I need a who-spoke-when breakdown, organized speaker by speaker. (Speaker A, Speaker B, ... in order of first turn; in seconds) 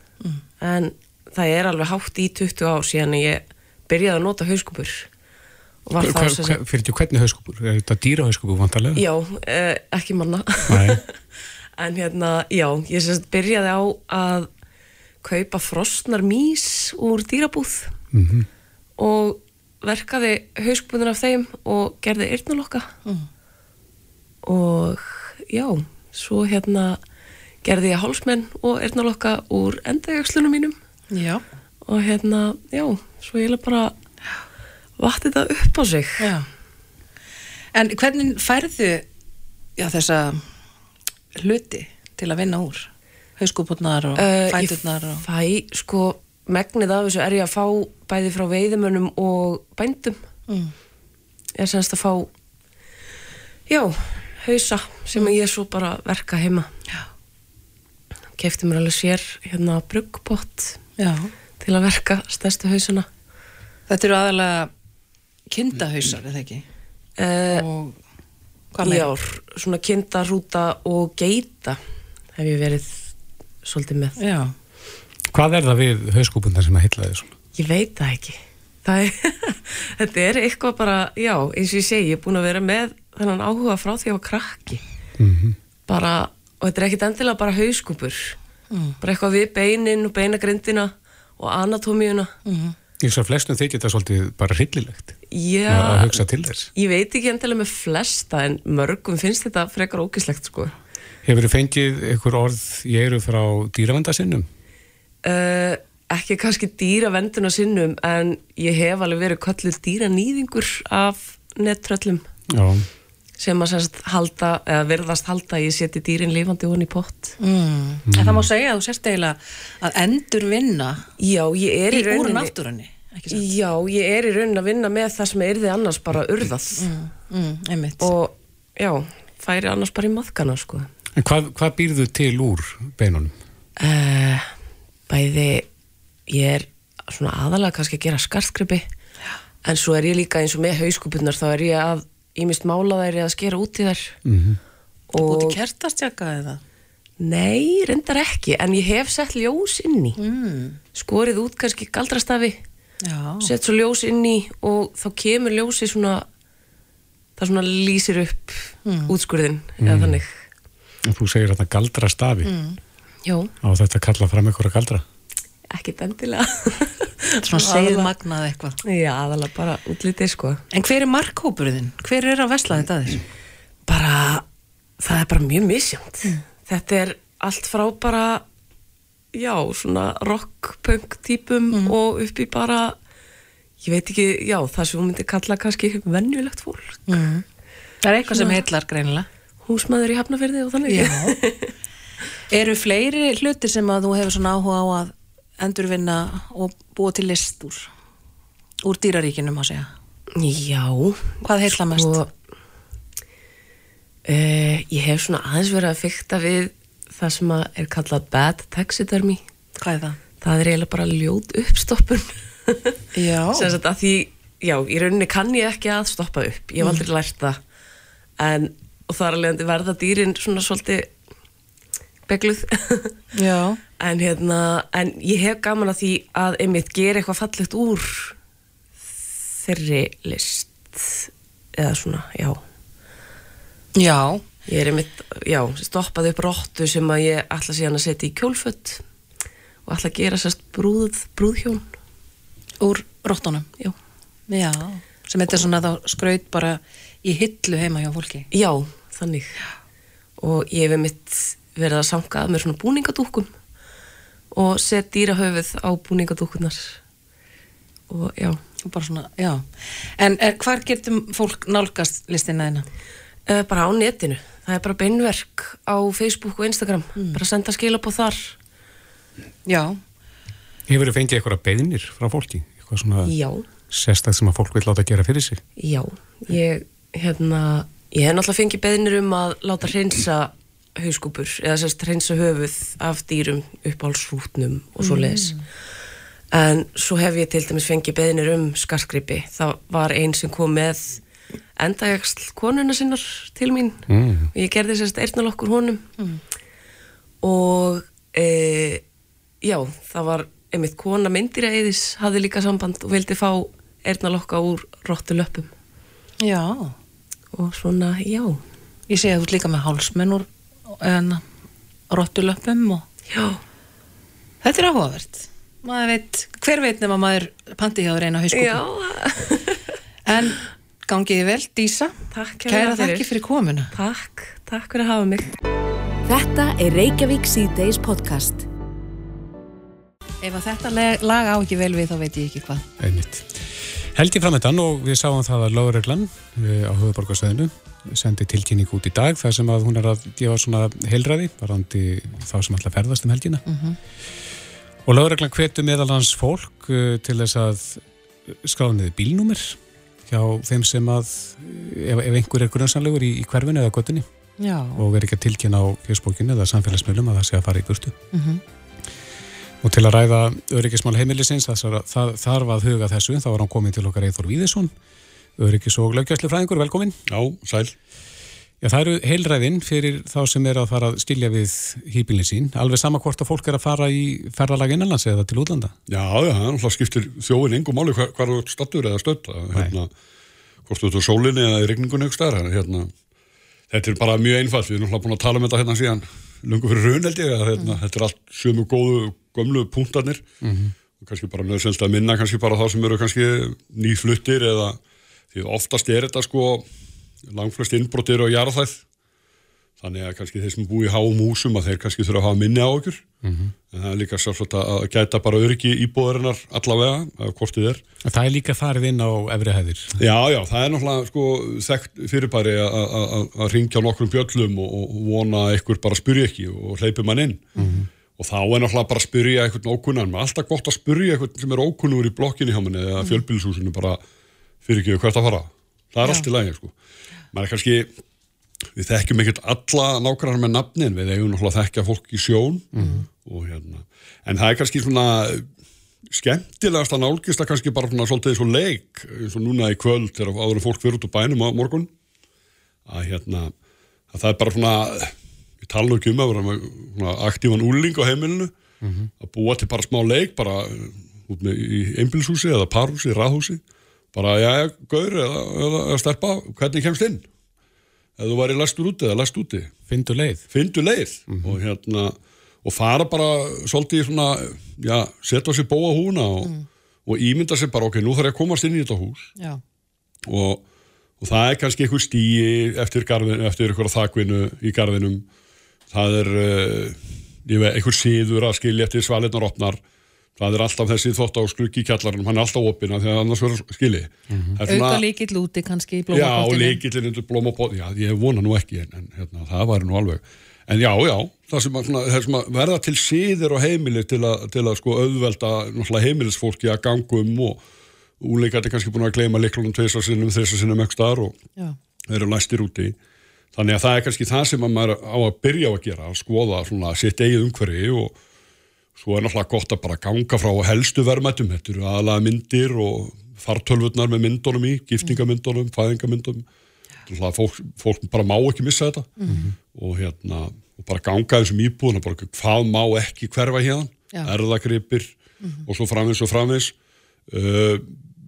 Speaker A: 0.6-5.1, 5.8-6.6, 8.9-11.1, 11.8-14.5, 15.2-18.0, 19.0-22.9, 24.4-27.0, 27.6-30.8, 31.9-34.0, 35.0-36.3, 44.2-50.3, 51.6-52.3, 53.7-56.7, 58.4-60.8, 61.6-63.1, 67.2-67.7, 68.8-71.8, 72.3-73.1, 73.6-74.2, 77.5-84.8, 85.9-88.4, 89.0-92.3, 95.3-96.2, 96.8-100.8, 105.2-112.3, 113.4-117.4, 121.2-122.5, 123.3-126.9, 128.0-130.9, 133.8-134.5, 135.1-135.7, 136.3-138.9, 139.6-144.2, 145.1-145.6, 147.2-150.2, 150.9-152.6, 153.4-156.3, 157.4-160.4, 163.2-163.5, 165.7-168.1, 168.8-170.6, 173.9-174.5, 175.0-178.4, 179.3-183.0, 183.8-187.2, 188.3-188.6, 189.6-191.7, 200.3-202.3, 204.3-209.4, 210.4-213.0, 213.5-217.6, 218.4-221.1, 222.3-223.2, 224.0-228.4, 229.6-232.6, 234.7-239.0, 239.8-241.9, 248.5-249.6, 250.4-253.5, 254.5-257.0, 258.1-258.6, 263.5-268.6, 273.2-273.7, 275.8-285.7, 286.5-291.2, 291.8-296.1, 297.4-299.0, 299.6-305.7, 307.5-308.6, 313.3-313.6, 318.5-319.9, 322.3-323.4, 323.9-325.6
Speaker B: 6.0-9.0, 10.7-11.0, 18.1-18.5, 75.3-77.3, 85.2-85.6, 93.0-95.2, 95.7-96.7, 101.2-104.5, 112.5-112.9, 118.1-118.5, 131.2-133.3, 144.2-144.6, 159.8-160.2, 161.1-162.5, 163.6-165.0, 270.9-273.3, 273.9-275.6, 294.1-294.5, 333.0-343.6, 345.1-354.2, 355.0-358.2, 359.8-364.9, 365.6-367.2, 368.8-375.9, 390.6-390.9, 403.4-403.7, 408.2-410.2, 417.8-418.1, 432.9-433.3, 449.0-449.3, 460.1-460.6, 461.5-461.8, 484.5-484.8, 519.5-519.8
Speaker C: 31.1-31.4, 36.2-36.5, 37.7-39.1, 39.8-40.5, 41.4-45.2, 50.5-50.7, 61.0-61.3, 63.9-64.7, 65.5-66.6, 67.5-68.0, 68.7-69.1, 74.2-74.5, 88.7-89.0, 92.5-92.8, 117.4-121.1, 121.9-123.5, 126.8-128.1, 145.2-146.6, 150.2-150.8, 153.0-153.5, 158.9-159.1, 162.4-162.8, 167.4-168.8, 170.7-173.2, 187.1-187.4, 188.0-189.3, 190.9-191.4, 192.5-197.9, 198.8-199.9, 201.4-202.2, 209.8-210.2, 213.1-213.8, 223.3-223.8, 234.0-234.4, 242.8-243.7, 244.5-248.5, 258.8-262.9, 267.2-267.4, 269.7-270.0, 285.0-285.6, 306.4-307.0, 309.1-311.4, 312.1-313.1, 314.6-318.8, 320.2-323.9, 330.4-332.9, 343.7-344.0, 354.6-355.0, 358.3-358.6, 417.8-418.0, 433.0-433.3, 484.9-487.0, 519.4-519.7
Speaker D: 326.3-328.7
Speaker E: 367.3-367.9, 376.1-380.1, 380.9-383.1, 383.9-390.5, 391.2-395.0, 395.5-396.9, 397.5-399.0, 400.0-403.3, 403.9-408.0, 410.2-417.7, 418.4-424.2, 424.9-426.9, 427.5-428.1, 429.0-435.7, 436.3-442.1, 443.1-443.7, 444.3-448.7, 449.4-453.8, 454.3-457.5, 458.4-459.9, 460.7-466.7, 467.3-469.5, 470.5-470.8, 471.4-475.4, 476.1-480.0, 480.6-485.2, 486.3-497.8, 498.4-501.6, 502.3-503.2, 503.8-508.3, 509.2-516.6, 517.3-519.3, 519.9-525.3, 525.9-526.9, 527.5-528.2